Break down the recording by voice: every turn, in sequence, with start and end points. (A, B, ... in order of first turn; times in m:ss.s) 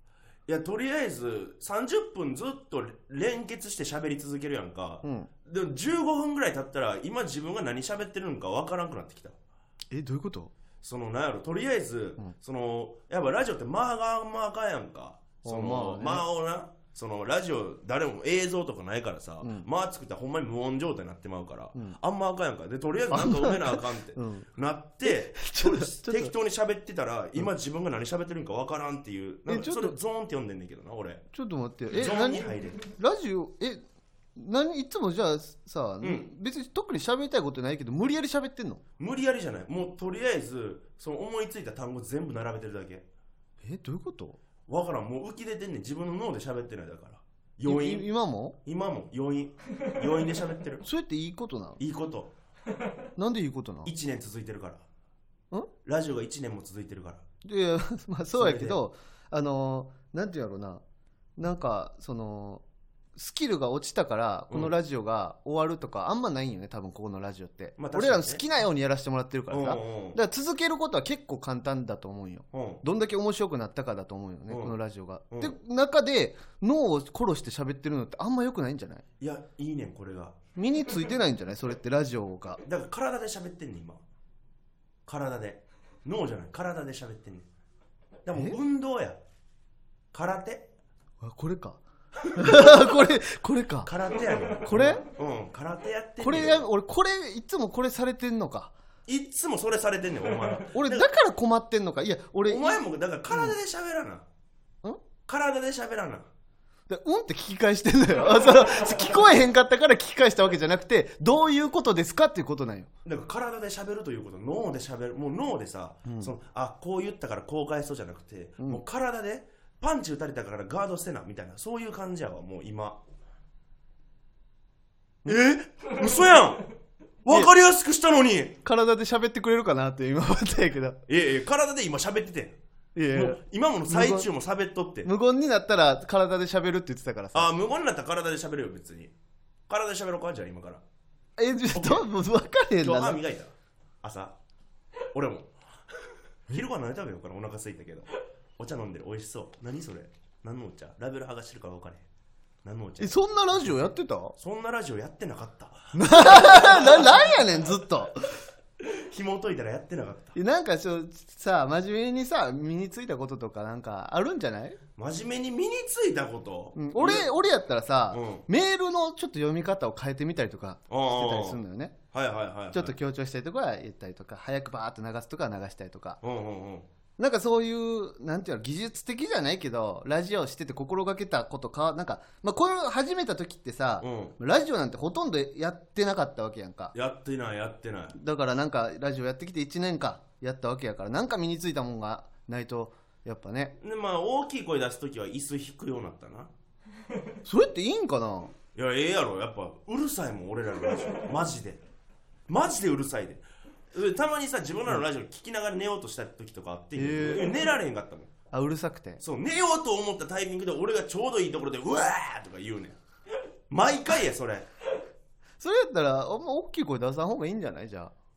0:00.5-0:09.4 A
0:05.0-0:05.3 B
0:09.9-0:10.5 B
0:10.8-0:31.2 A
0:15.4-0:16.2 B
0:23.1-0:24.5 B
0:25.0-0:26.3 B
0:29.5-0:30.0 B
0:31.3-0:33.8 B
0:31.9-0:32.8 A
0:34.4-0:38.8 B
0:36.0-0:36.3 A
0:39.0-0:43.0 A
0:43.6-0:44.4 B
0:44.7-0:48.1 A
0:47.6-0:48.6 B
0:48.6-0:50.8 A
0:50.8-0:51.8 B
0:51.8-0:52.3 A
0:53.2-0:53.9 B
0:53.8-0:54.8 A
0:55.8-0:57.2 A
0:57.4-1:00.8 B
0:58.3-0:58.8 A
1:01.4-1:02.6 B
1:03.2-1:19.0 B
1:07.8-1:08.4 A
1:09.5-1:10.2 A
1:12.5-1:12.8 A
1:14.5-1:14.8 A
1:19.2-1:20.4 A
1:20.6-1:22.6 B
1:22.6-1:24.0 A
1:25.0-1:27.5 A
1:28.2-1:29.2 A
1:28.3-1:28.6 B
1:30.1-1:30.7 A
1:31.2-1:31.8 B
1:32.3-1:32.8 A
1:32.3-1:33.9 B
1:33.8-1:36.6 A
1:34.6-1:35.0 B
1:36.2-1:38.7 B
1:39.1-1:41.1 A
1:40.7-1:43.5 B
1:42.4-1:44.2 A
1:45.2-1:46.3 A
1:46.9-1:52.9 B
1:53.0-2:03.0 A
1:56.0-1:56.3 B
2:05.2-2:06.7 A
2:07.2-2:08.6 A
2:08.6-2:11.0 B
2:11.1-2:12.6 A
2:12.9-2:14.3 B
2:13.1-2:15.1 A
2:15.0-2:17.5 B
2:17.3-2:19.1 A
2:19.7-2:20.8 A
2:21.4-2:23.2 B
2:21.7-2:22.0 A
2:22.8-2:24.4 A
2:25.1-2:25.5 A
2:26.5-2:32.0 A
2:32.6-2:33.7 A
2:33.0-2:34.4 B
2:34.4-2:37.0 A
2:35.9-2:38.4 B
2:38.8-2:40.3 A
2:40.3-2:44.8 B
2:45.0-2:47.3 A
2:46.8-2:51.9 B
2:48.1-2:48.4 A
2:50.9-2:51.6 A
2:52.1-2:53.0 A
2:52.7-2:56.2 B
2:56.2-2:56.9 A
2:57.2-3:06.9 B
3:04.0-3:04.3 A
3:06.9-3:08.2 A
3:08.1-3:13.8 B
3:13.8-3:16.5 A
3:17.4-3:18.5 B
3:18.7-3:21.8 A
3:22.5-3:28.3 A
3:27.0-3:27.6 B
3:28.5-3:29.2 B
3:29.2-3:33.0 A
3:33.7-3:34.7 A
3:35.6-3:38.1 B